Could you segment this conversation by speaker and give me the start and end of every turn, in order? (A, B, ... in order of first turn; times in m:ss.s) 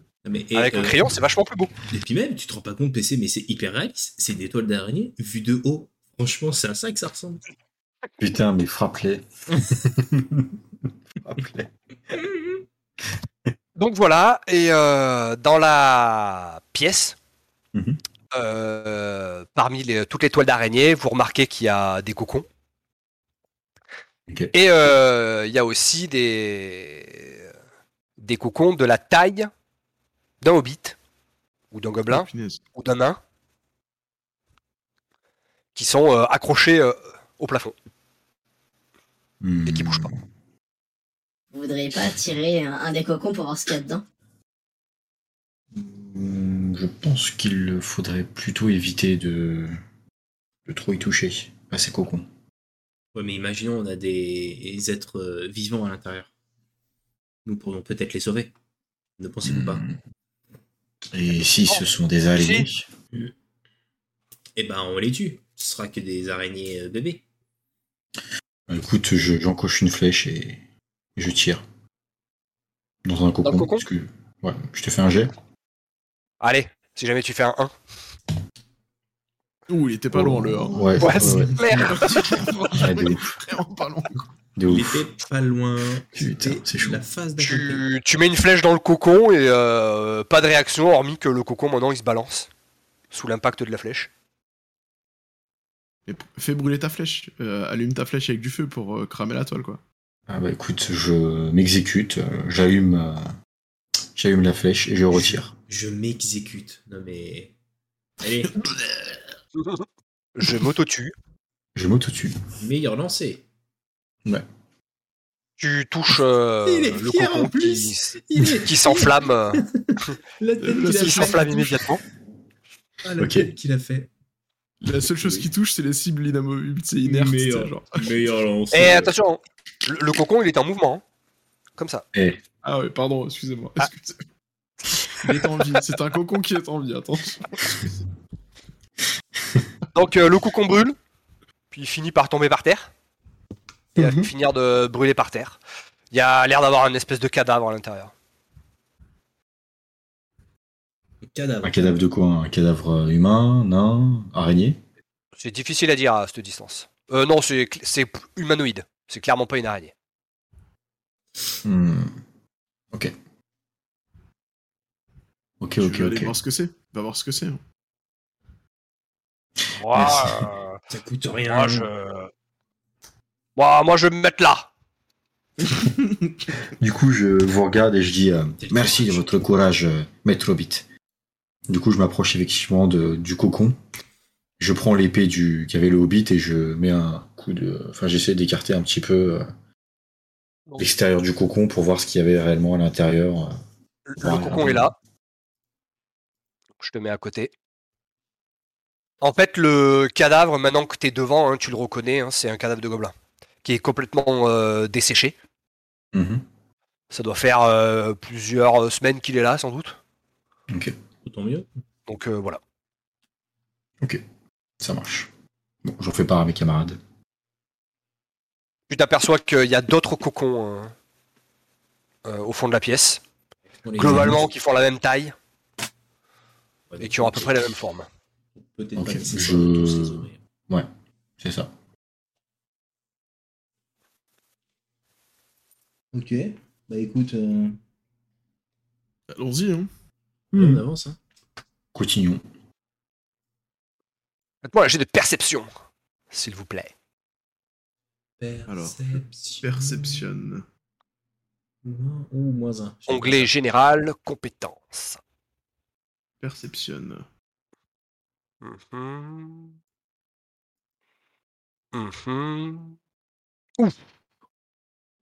0:00.2-0:01.0 A
0:00.5-0:01.7 B
0:01.9-0:07.4 A
0:08.2-0:10.6 C
0:11.2-0:11.7 C
0:12.2-0:12.5 A
0:13.8-0:17.2 B
0:17.7-0:18.0 C
0:18.3-0:22.4 B
0:24.3-0:24.5 C
0:24.5-0:27.4 B
0:28.2-0:29.5 B
0:30.4-0:31.0 B
0:31.7-0:33.2 B
0:32.1-0:32.6 D
0:35.7-0:37.7 B
0:39.4-0:40.2 C
0:39.6-0:40.1 B
0:41.5-0:44.0 E
0:45.7-0:49.8 C
0:50.6-0:52.3 C
0:53.1-0:56.3 A
0:57.4-0:58.5 A
0:59.2-0:59.9 A
0:59.4-1:00.0 C
1:01.1-1:02.9 C
1:02.4-1:02.6 B
1:04.6-1:07.2 A
1:08.7-1:10.6 C
1:11.2-1:11.6 C
1:13.0-1:15.3 C
1:13.4-1:13.8 B
1:16.4-1:17.7 B
1:19.7-1:24.2 D
1:20.1-1:21.9 C
1:21.0-1:22.5 B
1:21.2-1:21.5 A
1:22.7-1:23.3 C
1:24.6-1:25.0 C
1:24.6-1:27.8 A
1:26.1-1:27.0 C
1:27.4-1:32.5 B
1:33.1-1:34.1 B
1:36.0-1:39.8 D
1:40.3-1:43.2 C
1:44.1-1:45.5 C
1:45.1-1:47.5 A
1:48.2-1:48.7 A
1:48.6-1:49.0 D
1:50.4-1:51.1 B
1:51.7-1:52.4 C
1:52.6-1:53.4 A
1:55.6-1:59.6 B
1:56.6-2:01.7 A
2:00.6-2:01.8 D
2:00.9-2:02.0 B
2:03.0-2:04.1 A
2:03.2-2:03.5 C
2:04.8-2:08.1 D
2:05.2-2:05.5 A
2:07.0-2:09.1 A
2:08.7-2:11.0 B
2:11.8-2:12.0 B
2:12.1-2:12.4 C
2:12.6-2:14.2 D
2:15.1-2:17.8 D
2:19.9-2:20.9 B
2:21.7-2:22.9 B
2:23.9-2:25.6 B
2:24.0-2:24.3 C
2:26.1-2:28.1 B
2:31.2-2:32.0 A
2:31.6-2:34.8 C
2:35.4-2:39.9 B
2:41.6-2:42.1 C
2:45.6-2:46.4 C
2:45.8-2:47.6 D
2:49.8-2:50.8 B
2:49.9-2:50.5 C
2:50.9-2:51.9 A
2:51.5-2:52.3 B
2:53.6-2:54.7 B
2:55.6-2:56.5 D
2:56.7-3:00.9 C
2:58.6-2:59.3 A
3:01.7-3:03.8 C
3:04.6-3:09.5 C
3:10.8-3:13.5 C
3:14.1-3:14.9 B
3:14.2-3:14.9 C
3:16.8-3:17.5 B
3:19.2-3:23.1 B
3:23.6-3:25.3 B
3:26.1-3:26.4 C
3:27.1-3:30.0 B
3:30.7-3:30.9 C
3:31.2-3:31.7 A
3:32.1-3:32.6 B
3:34.8-3:35.3 C
3:35.8-3:37.0 C
3:38.9-3:40.9 B
3:42.2-3:43.2 B
3:43.8-3:44.4 A
3:44.0-3:45.3 B
3:44.0-3:44.3 C
3:46.9-3:47.7 A
3:47.0-3:48.1 B
3:48.6-3:50.4 A
3:49.0-3:50.9 C
3:51.4-3:51.7 C
3:56.1-3:57.8 A
3:59.3-3:59.9 D
4:00.5-4:00.8 C
4:00.5-4:01.2 A
4:01.9-4:02.4 C
4:04.6-4:05.7 B
4:06.3-4:06.9 B
4:08.4-4:10.3 A
4:08.7-4:10.6 D
4:11.8-4:13.5 A
4:13.1-4:15.2 B
4:16.4-4:17.2 D
4:18.6-4:19.7 B
4:21.9-4:23.0 B